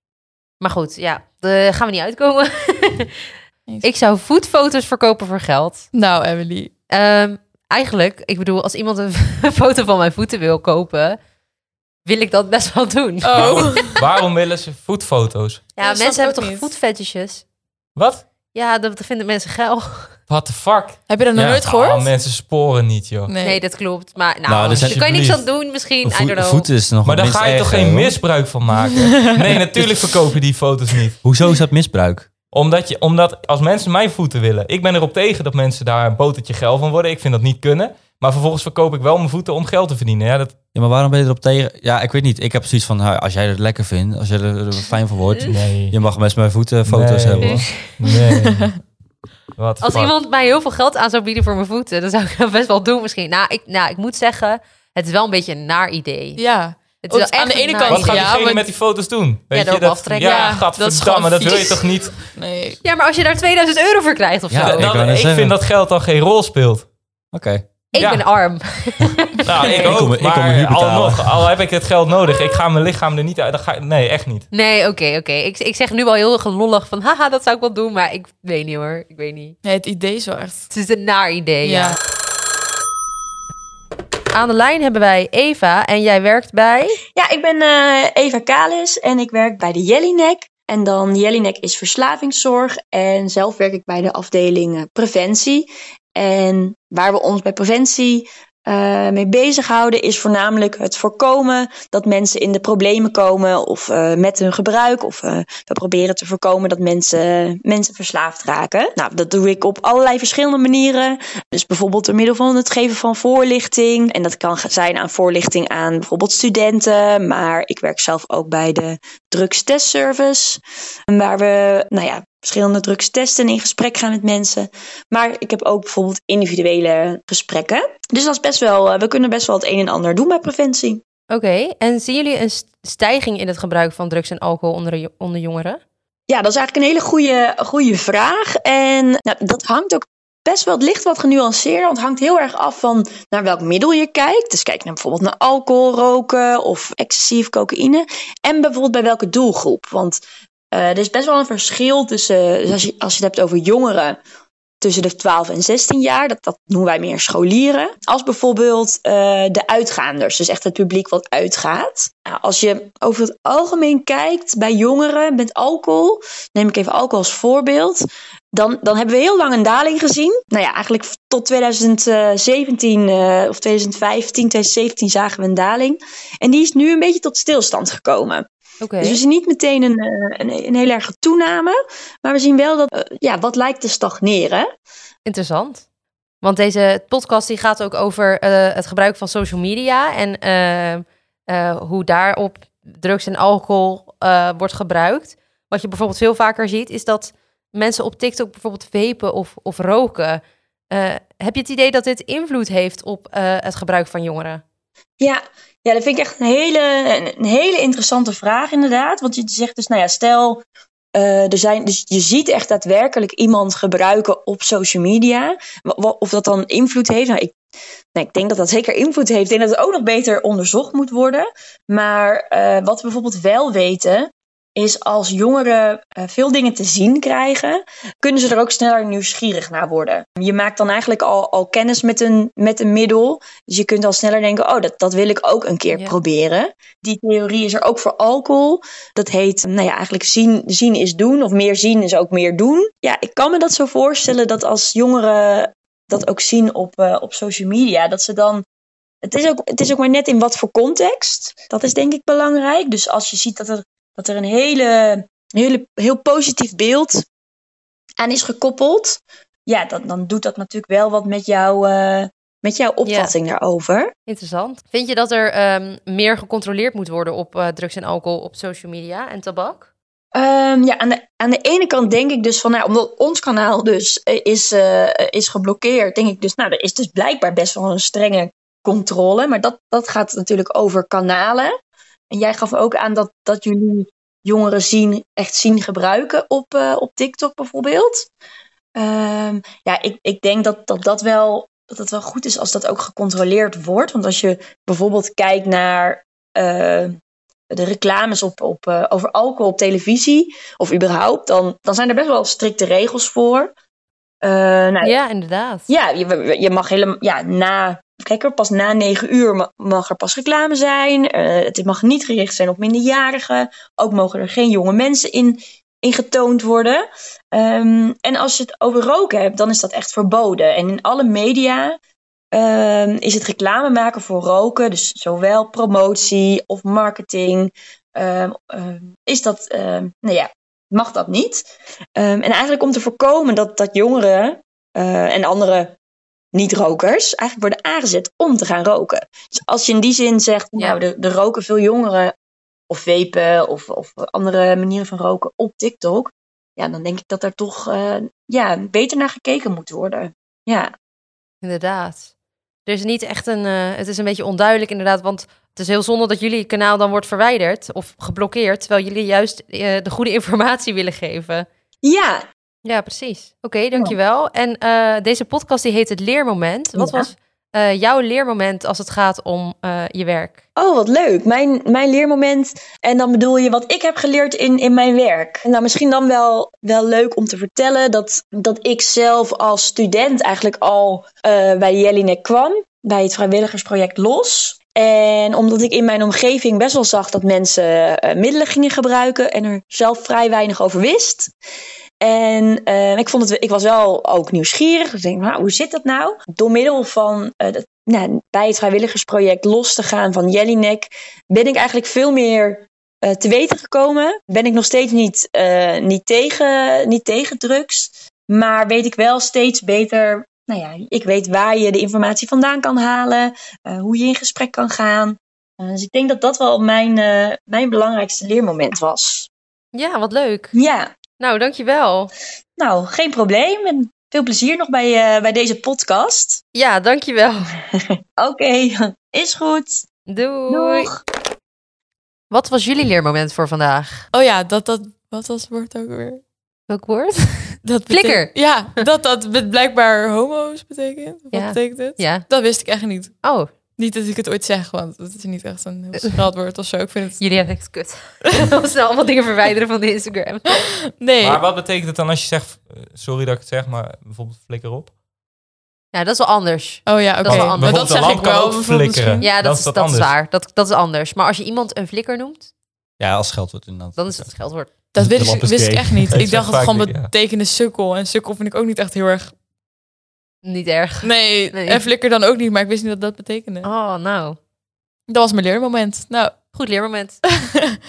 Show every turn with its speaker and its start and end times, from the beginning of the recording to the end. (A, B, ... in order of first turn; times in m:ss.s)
0:00.6-0:03.2 A
0:03.8-0:05.9 A
0:05.9-0:06.7 B
0:06.9-0:11.2 A
0:12.0-0:14.0 A
0:13.2-0:14.0 B
0:13.4-0:15.7 C
0:15.8-0:16.7 B
0:15.8-0:17.4 A
0:18.0-0:18.2 C
0:18.5-0:20.1 A
0:20.3-0:23.3 C
0:21.1-0:22.1 B
0:23.3-0:23.6 B
0:23.4-0:26.7 A
0:24.5-0:28.2 D
0:24.7-0:25.0 C
0:27.0-0:31.2 C
0:31.2-0:32.3 D
0:32.5-0:40.5 C
0:40.7-0:47.7 D
0:45.5-0:46.0 C
0:46.8-0:48.7 C
0:48.4-0:48.8 B
0:49.6-0:50.1 C
0:49.8-0:58.4 A
0:56.4-0:58.7 B
0:57.9-1:02.3 C
0:59.5-1:00.6 A
1:00.2-1:02.8 B
1:01.5-1:01.7 A
1:02.8-1:04.9 A
1:04.5-1:05.6 D
1:04.6-1:06.9 C
1:07.3-1:07.6 D
1:07.9-1:10.0 A
1:08.0-1:08.3 C
1:09.4-1:14.5 C
1:09.7-1:11.5 D
1:14.5-1:19.6 A
1:19.6-1:20.7 B
1:20.7-1:22.0 A
1:21.6-1:22.0 B
1:24.3-1:27.0 A
1:27.2-2:11.0 E
2:11.3-2:15.8 A
2:16.3-2:30.2 E
2:30.7-2:34.2 E
2:34.8-2:58.5 E
2:58.8-2:59.2 A
2:59.0-3:04.7 E
3:05.2-3:05.8 A
3:06.4-3:24.6 A
3:25.2-3:30.6 E
3:31.2-3:37.6 E
3:38.2-4:08.6 E
4:09.2-4:17.2 E
4:18.2-4:24.1 E
4:23.0-4:23.3 A
4:24.3-4:29.9 A
4:30.3-4:41.8 E
4:42.3-4:48.3 E
4:49.0-4:57.2 E
4:57.7-5:03.7 E
5:04.4-5:05.1 E
5:05.0-5:05.9 A
5:05.9-5:22.0 E
5:22.5-5:31.6 E
5:32.2-5:36.0 E
5:36.5-5:42.3 E
5:42.9-5:50.9 E
5:51.6-5:52.3 A
5:52.9-6:01.7 A
6:02.0-6:02.4 E
6:02.8-6:10.6 A
6:07.0-6:07.3 E
6:10.8-6:31.5 E
6:32.2-6:59.5 E
6:59.9-7:00.7 A
7:00.8-7:01.1 E
7:01.4-7:02.3 A
7:02.8-7:06.6 E
7:06.7-7:07.7 A
7:08.0-7:10.1 E
7:10.3-7:11.1 A
7:10.7-7:11.2 E
7:12.5-7:14.3 A
7:14.3-7:16.4 B
7:16.9-7:19.0 A
7:17.8-7:27.5 B
7:21.5-7:22.5 A
7:23.4-7:23.7 A
7:27.4-7:30.9 A
7:30.7-7:31.6 B
7:31.4-7:35.1 C
7:36.1-7:38.2 A
7:37.1-7:39.5 B
7:37.4-7:40.3 C
7:39.4-7:42.7 A
7:43.2-7:44.5 D
7:44.2-7:44.9 A
7:45.1-7:49.5 B
7:45.2-7:46.4 D
7:46.3-7:47.3 C
7:50.6-7:52.1 A
7:51.2-7:53.9 B
7:53.8-7:54.6 A
7:55.3-7:56.6 B
7:56.7-7:57.4 A